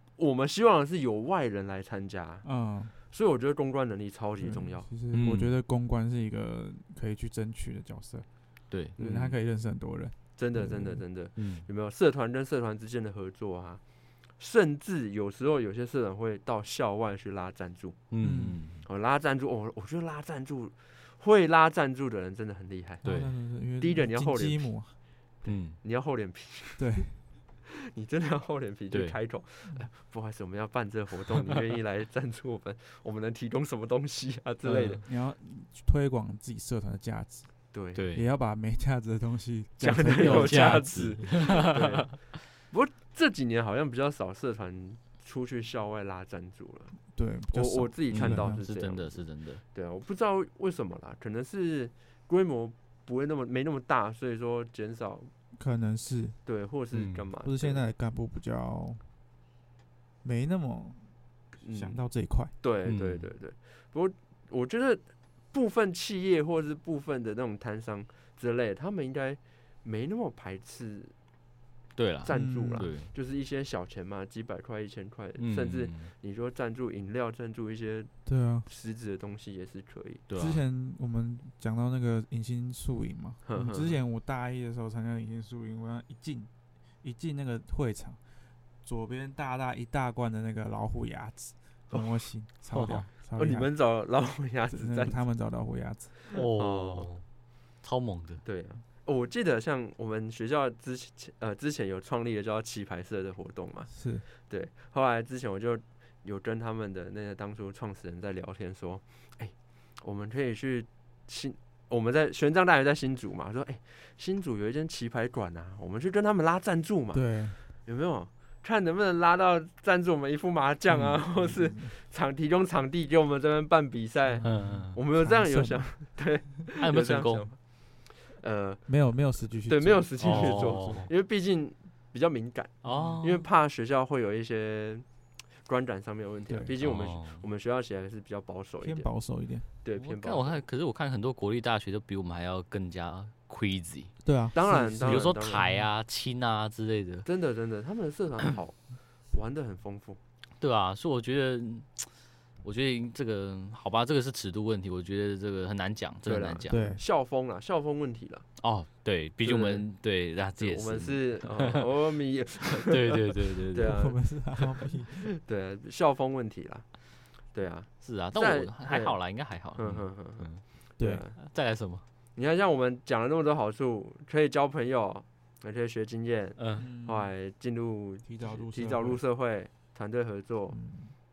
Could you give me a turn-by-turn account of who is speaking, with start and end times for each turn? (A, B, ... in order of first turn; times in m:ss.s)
0:00.2-0:02.5 A
0:02.4-0:02.9 B
0:03.1-0:04.9 A
0:04.4-0:08.2 B
0:05.1-0:05.5 C
0:08.7-0:09.0 C
0:09.0-0:11.0 B
0:09.0-0:09.4 A
0:10.4-0:13.8 A
0:11.4-0:11.6 C
0:14.4-0:18.0 A
0:18.1-0:18.8 C
0:18.2-0:18.6 B
0:18.8-0:23.1 A
0:23.0-0:24.9 B
0:23.0-0:23.3 C
0:23.8-0:24.7 A
0:25.4-0:27.0 A
0:25.4-0:25.8 C
0:26.8-0:27.1 B
0:27.9-0:35.0 A
0:28.9-0:29.2 C
0:34.6-0:35.0 C
0:35.0-0:41.1 B
0:37.7-0:38.0 A
0:37.9-0:38.3 C
0:39.8-0:47.0 A
0:40.2-0:42.0 C
0:47.1-0:48.6 B
0:47.5-0:55.3 A
0:48.1-0:49.6 C
0:55.6-0:56.4 B
0:56.4-0:57.8 A
0:56.9-0:57.2 C
0:57.4-0:59.0 B
1:00.2-1:01.1 B
1:01.6-1:02.0 A
1:01.7-1:02.5 B
1:02.6-1:11.1 A
1:02.8-1:03.3 C
1:12.0-1:13.1 C
1:12.2-1:18.1 A
1:12.3-1:12.9 B
1:15.4-1:16.1 C
1:18.2-1:18.7 B
1:18.6-1:20.2 A
1:20.3-1:20.6 C
1:20.4-1:26.5 B
1:23.4-1:24.0 A
1:27.0-1:28.2 B
1:28.8-1:33.7 B
1:31.9-1:32.2 A
1:32.7-1:33.0 C
1:33.2-1:35.2 A
1:34.7-1:36.1 B
1:36.3-1:37.2 C
1:36.6-1:37.1 A
1:37.8-1:38.4 C
1:38.4-2:09.0 A
1:43.9-1:44.2 B
1:57.1-1:57.6 B
2:00.9-2:01.9 B
2:04.3-2:05.9 B
2:04.4-2:05.0 C
2:06.8-2:07.5 C
2:08.9-2:11.1 B
2:09.6-2:15.0 A
2:10.2-2:11.1 C
2:12.8-2:13.4 C
2:12.9-2:13.2 B
2:15.6-2:19.1 A
2:16.5-2:16.7 B
2:16.8-2:17.4 C
2:18.8-2:19.6 B
2:19.8-2:20.6 A
2:20.0-2:27.3 C
2:24.2-2:25.9 B
2:24.5-2:25.7 A
2:27.2-2:30.2 A
2:30.6-2:32.1 C
2:32.6-2:36.8 C
2:36.2-2:38.5 A
2:36.7-2:37.0 B
2:38.6-2:41.8 C
2:39.4-2:39.8 A
2:40.6-2:43.2 A
2:42.8-2:44.0 C
2:43.7-2:44.2 A
2:43.8-2:45.3 B
2:45.4-2:51.4 A
2:48.0-2:50.6 C
2:51.0-2:51.2 B
2:51.4-2:52.0 C
2:52.4-3:00.8 A
2:56.6-2:56.9 C
2:56.8-2:57.3 B
2:58.2-2:59.2 B
3:00.7-3:01.1 B